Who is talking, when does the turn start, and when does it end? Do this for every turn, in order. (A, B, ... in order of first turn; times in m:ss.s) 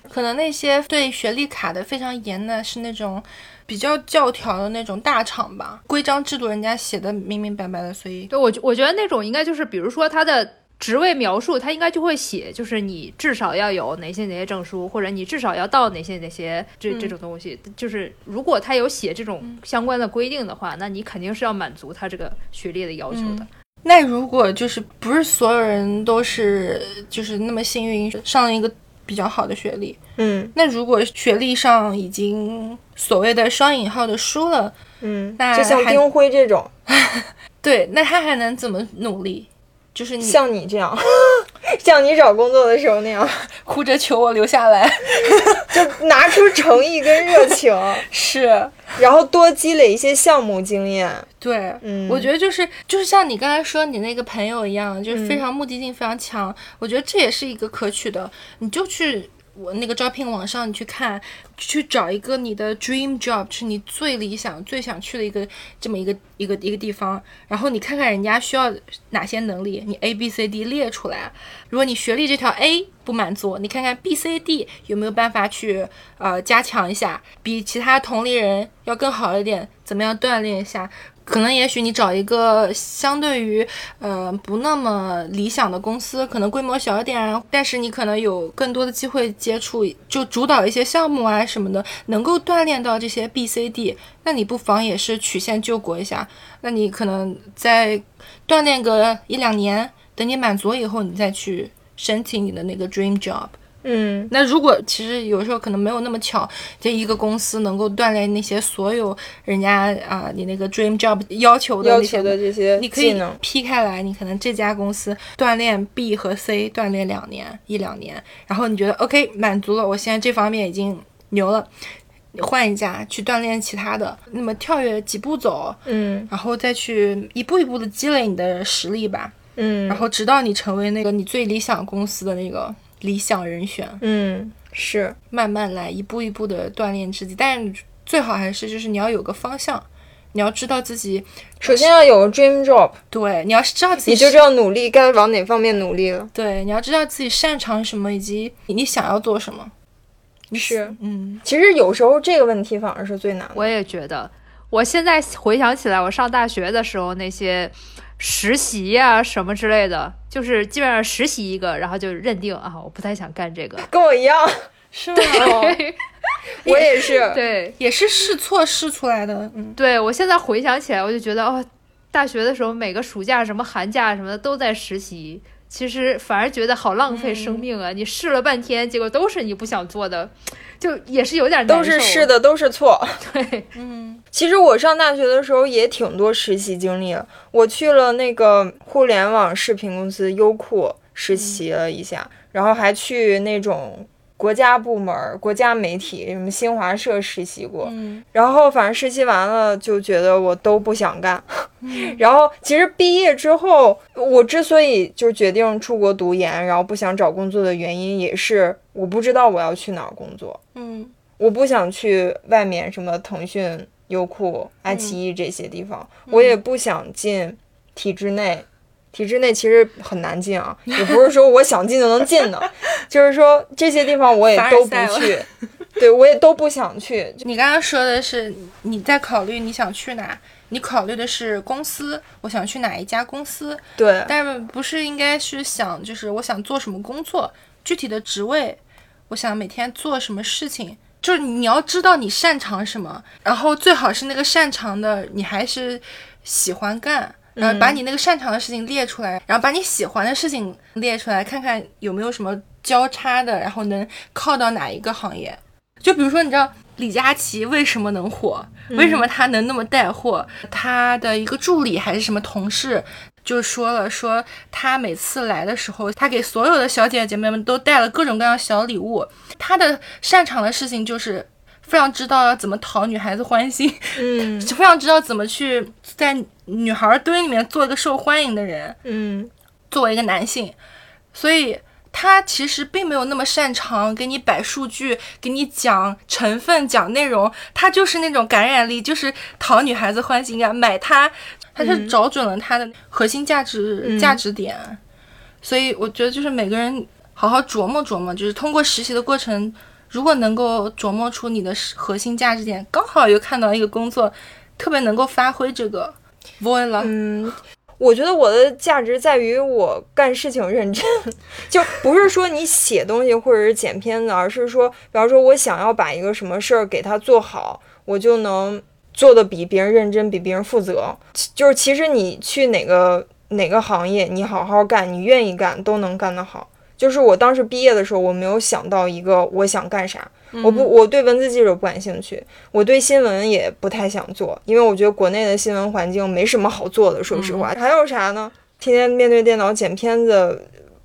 0:00.1-0:08.3 A
0:08.3-0:23.4 B
0:16.9-0:17.1 A
0:23.1-0:30.0 A
0:30.2-0:30.5 C
0:30.5-0:34.7 A
0:35.0-0:36.7 C
0:35.4-0:36.0 A
0:36.9-0:40.4 A
0:40.2-0:43.5 C
0:43.6-0:45.8 A
0:45.7-0:48.0 C
0:47.2-0:47.6 A
0:48.1-0:49.0 A
0:49.0-0:51.3 C
0:51.4-1:43.5 A
0:51.8-0:52.3 C
0:55.1-0:55.4 C
1:43.8-1:44.3 C
1:44.3-2:01.7 A
1:51.8-1:53.4 C
2:02.3-2:09.4 A
2:05.8-2:06.3 C
2:09.6-2:10.0 C
2:09.9-2:14.0 A
2:14.0-2:15.2 C
2:15.3-2:21.9 A
2:21.6-2:23.0 C
2:23.1-2:24.4 A
2:24.0-2:26.3 C
2:26.3-2:29.7 A
2:30.5-2:31.4 A
2:30.5-2:33.7 C
2:33.5-2:43.9 B
2:43.8-2:44.7 C
2:44.9-2:45.6 A
2:45.2-2:46.0 B
2:45.3-2:45.8 C
2:46.6-2:47.2 A
2:46.6-2:47.4 C
2:46.6-2:47.8 B
2:47.8-2:49.8 A
2:49.8-3:02.3 B
2:57.1-2:57.6 A
3:01.7-3:03.2 C
3:03.2-3:03.6 B
3:03.7-3:04.2 A
3:04.3-3:30.6 C
3:11.3-3:11.6 A
3:17.8-3:18.2 A
3:21.8-3:22.2 A
3:30.7-3:31.1 A
3:31.4-3:47.4 C
3:34.9-3:35.2 A
3:36.3-3:36.6 A
3:44.5-3:45.4 A
3:47.4-4:39.0 A
3:54.0-3:54.3 C
4:07.6-4:08.0 C
4:18.9-4:19.2 C
4:34.2-4:34.7 C
4:39.0-4:39.5 C
4:39.9-4:40.8 A
4:41.3-4:55.0 A
4:51.8-4:52.1 C
4:54.0-4:54.4 C
4:55.6-5:07.1 A
5:07.0-5:40.7 C
5:30.5-5:30.9 A
5:37.3-5:37.7 A